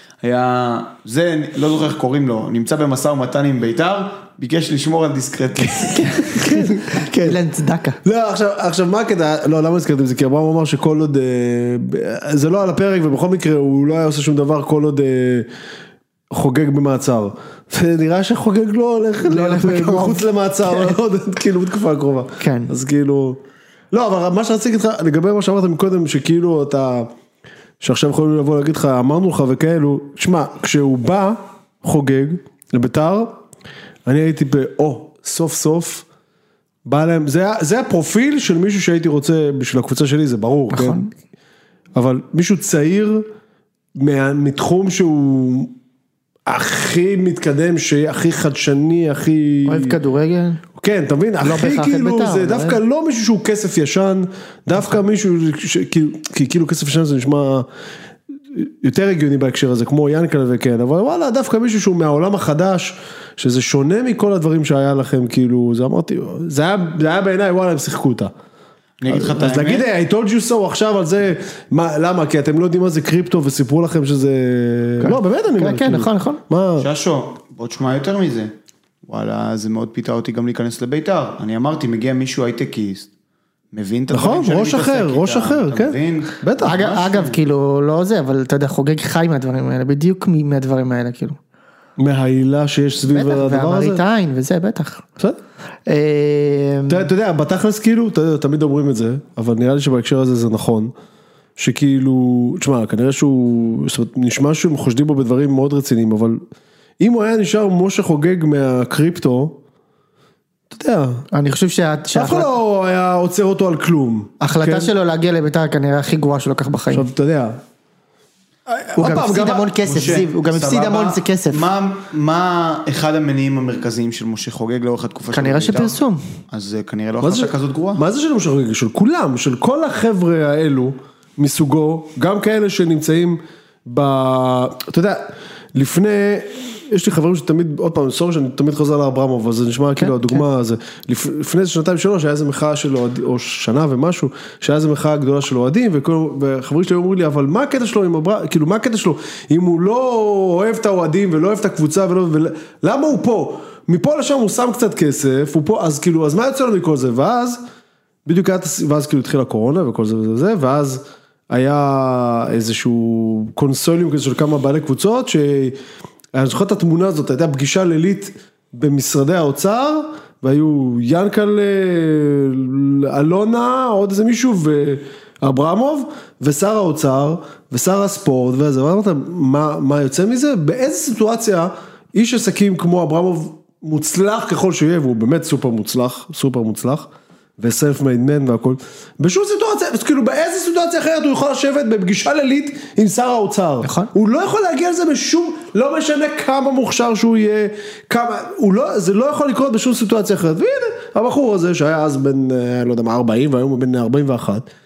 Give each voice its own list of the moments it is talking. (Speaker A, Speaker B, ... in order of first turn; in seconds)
Speaker A: 0.2-6.4, 69.0-69.9, 76.8-78.5, 79.1-83.1, 83.7-87.4, 119.7-126.0, 126.5-128.0
Speaker B: 5.7-8.0, 19.2-20.9, 22.4-22.7, 40.7-41.1, 49.7-50.6, 51.4-52.8, 75.0-76.4, 86.6-91.4, 93.1-95.1, 95.9-97.1, 111.3-112.5, 114.4-117.1, 119.0-121.7, 125.3-126.2, 140.0-140.4, 193.8-194.1
Speaker C: 6.4-7.4, 8.0-15.5, 16.3-23.4, 23.9-27.1, 27.8-33.4, 34.1-36.0, 36.9-41.0, 42.0-43.3, 44.0-45.7, 46.5-50.0, 50.8-57.7, 58.5-68.3, 69.1-76.9, 84.1-86.8, 92.0-94.0, 96.9-100.9, 101.6-106.4, 107.0-109.6, 110.7-111.2, 112.2-114.9, 116.9-117.6, 118.7-119.7, 127.2-157.6, 158.3-165.8, 166.3-204.7